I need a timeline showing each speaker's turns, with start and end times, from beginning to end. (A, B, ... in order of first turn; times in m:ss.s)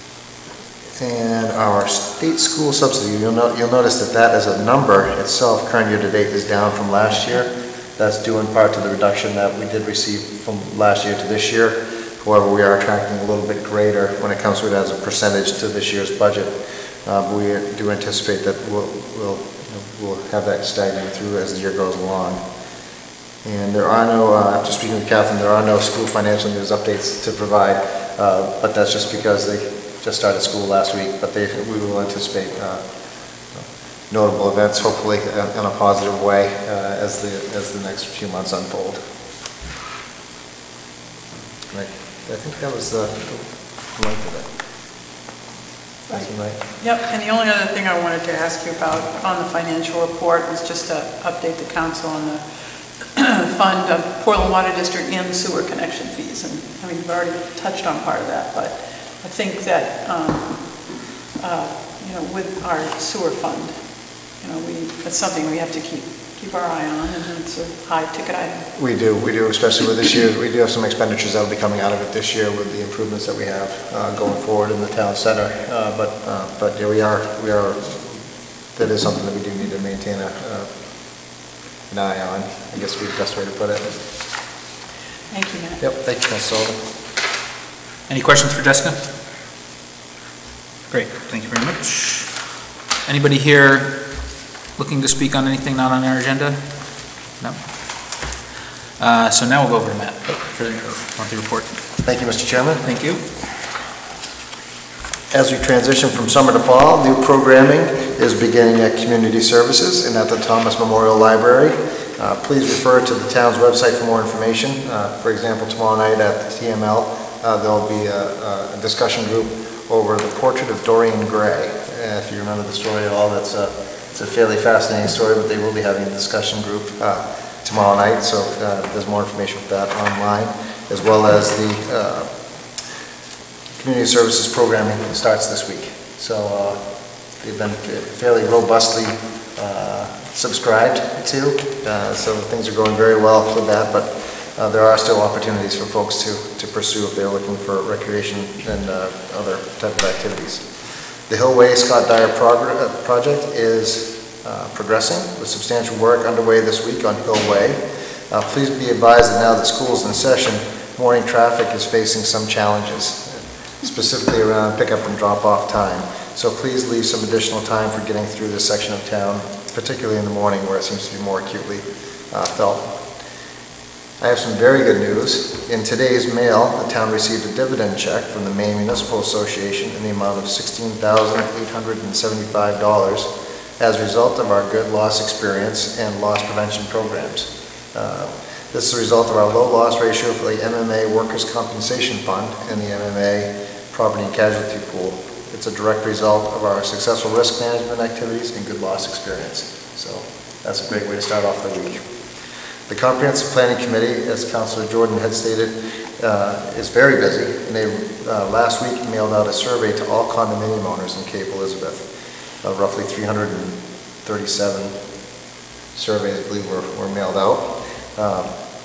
0:00.9-0:22.4 A
0:23.4-0:32.8 A
0:33.5-0:39.0 A
0:41.7-0:44.5 A
0:46.1-1:08.6 B
0:46.1-0:46.6 A
1:08.8-1:20.7 A
1:21.9-1:24.0 A
1:25.3-1:25.8 B
1:25.8-1:26.8 A
1:28.1-1:29.1 C
1:30.9-1:32.4 C
1:33.0-1:38.4 C
1:39.0-1:41.8 C
1:42.0-1:42.8 A
1:42.8-1:43.2 C
1:45.3-2:12.3 A
2:13.7-2:16.8 A
2:17.4-2:30.7 A
2:31.3-2:53.1 A
2:54.2-3:22.0 A
3:22.9-3:32.1 A
3:32.6-3:34.9 A
3:35.9-3:38.5 A